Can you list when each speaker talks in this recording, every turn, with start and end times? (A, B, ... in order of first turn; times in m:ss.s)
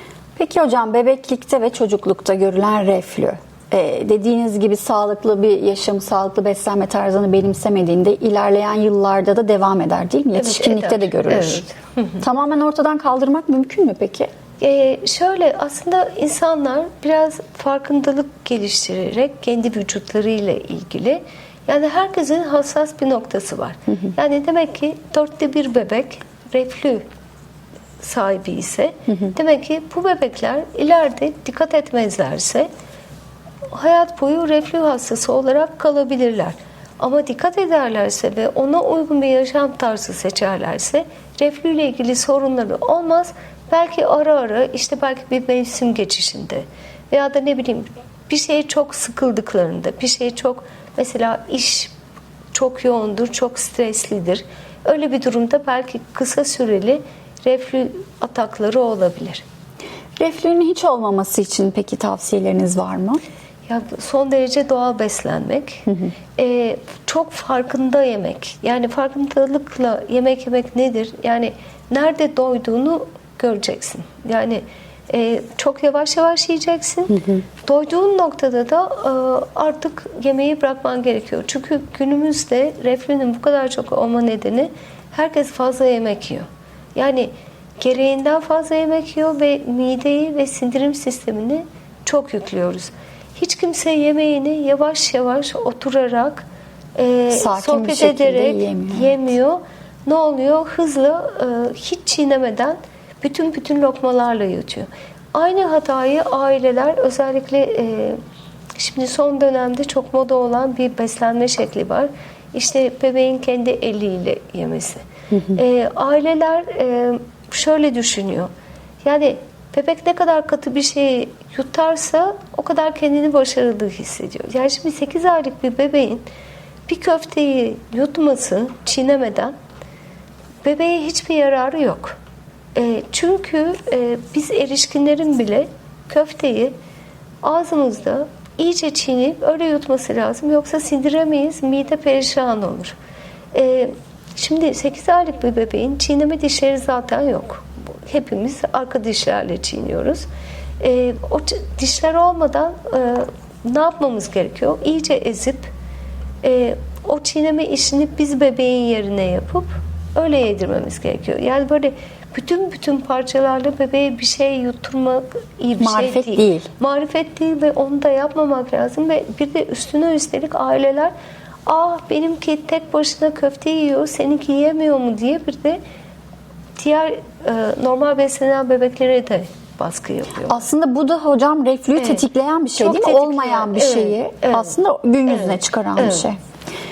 0:00.4-0:11.7 A
0:10.3-0:12.2 B
0:12.2-0:14.3 A
0:14.6-0:27.0 B
0:28.0-0:32.7 B
0:33.7-0:51.9 B
0:52.5-0:59.4 B
1:00.2-1:03.2 A
1:03.7-1:05.8 B
1:05.9-1:06.1 A
1:06.4-1:48.2 B
1:37.3-1:39.2 A
1:48.8-1:58.5 B
1:59.0-2:06.2 B
2:06.9-2:09.5 B
2:10.6-2:12.2 B
2:12.8-2:16.7 B
2:17.4-2:23.0 B
2:23.5-2:30.3 B
2:30.8-2:35.7 B
2:36.4-2:51.1 B
2:45.8-2:46.7 A
2:51.6-2:55.8 B
2:56.8-3:00.7 B
3:00.5-3:06.4 A
3:02.0-3:04.8 B
3:05.3-3:06.3 B